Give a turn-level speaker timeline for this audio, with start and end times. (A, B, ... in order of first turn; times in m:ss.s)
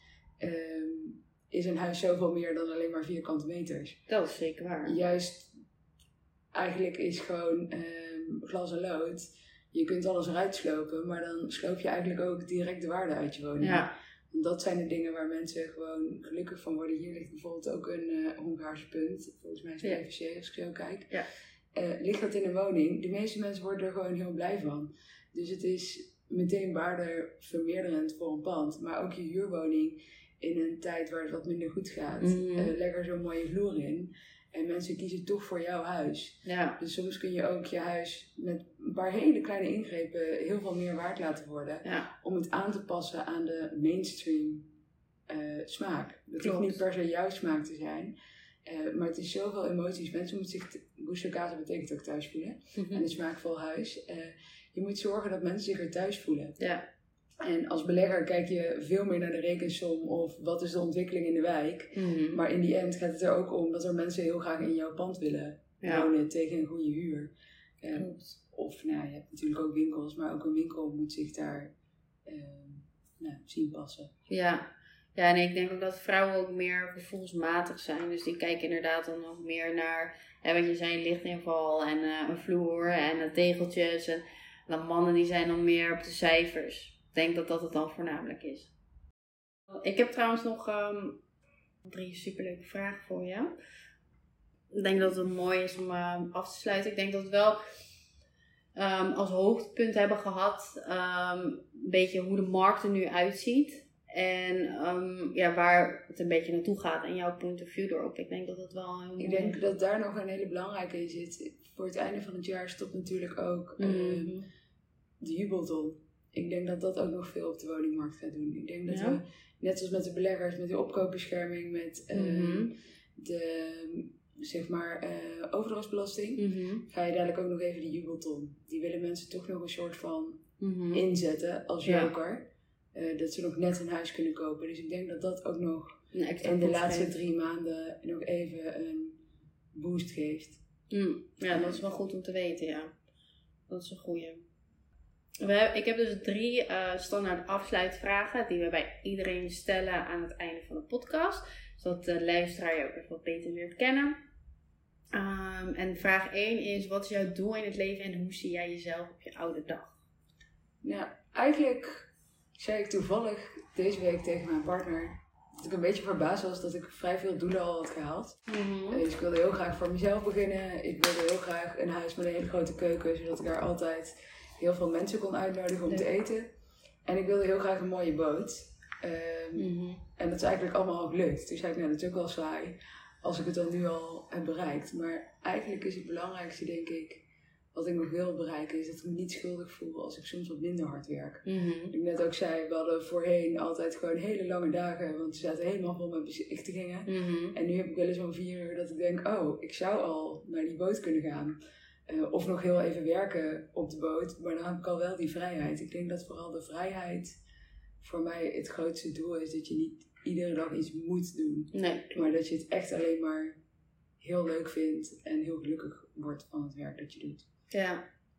0:00.4-0:04.0 A
0:04.1-0:05.0 B
0:04.8-0:05.5 A
0:06.5-0:21.1 A
0:13.6-0:13.9 B
0:21.7-0:44.7 A
0:32.2-0:32.7 B
0:36.4-0:36.8 B
0:41.8-0:42.1 B
0:45.3-0:48.1 A
0:46.4-0:46.8 B
0:48.6-0:56.6 A
0:52.8-0:53.1 B
0:56.6-0:56.8 B
0:57.4-1:11.7 A
1:01.9-1:02.4 B
1:05.8-1:06.1 B
1:07.9-1:08.4 B
1:12.2-1:14.1 A
1:14.3-1:28.7 B
1:29.7-1:31.2 B
1:31.8-1:33.5 B
1:34.7-1:37.6 B
1:38.7-1:49.6 B
1:49.2-1:54.4 A
1:53.8-1:54.5 B
1:55.2-2:19.2 A
1:58.9-1:59.2 B
2:02.1-2:02.7 B
2:06.4-2:06.8 B
2:10.6-2:11.0 B
2:11.8-2:12.1 B
2:16.1-2:17.1 B
2:19.7-2:20.6 A
2:20.9-2:22.9 B
2:21.5-2:21.8 A
2:23.7-2:24.4 B
2:25.4-2:34.2 B
2:35.1-2:40.0 B
2:40.8-2:56.5 A
2:48.5-2:49.0 B
2:57.0-3:27.4 A
2:59.6-3:00.0 B
3:11.4-3:11.9 B
3:17.1-3:17.6 B
3:28.0-3:33.6 A
3:31.7-3:32.3 B
3:34.2-3:37.4 A
3:37.7-3:38.0 B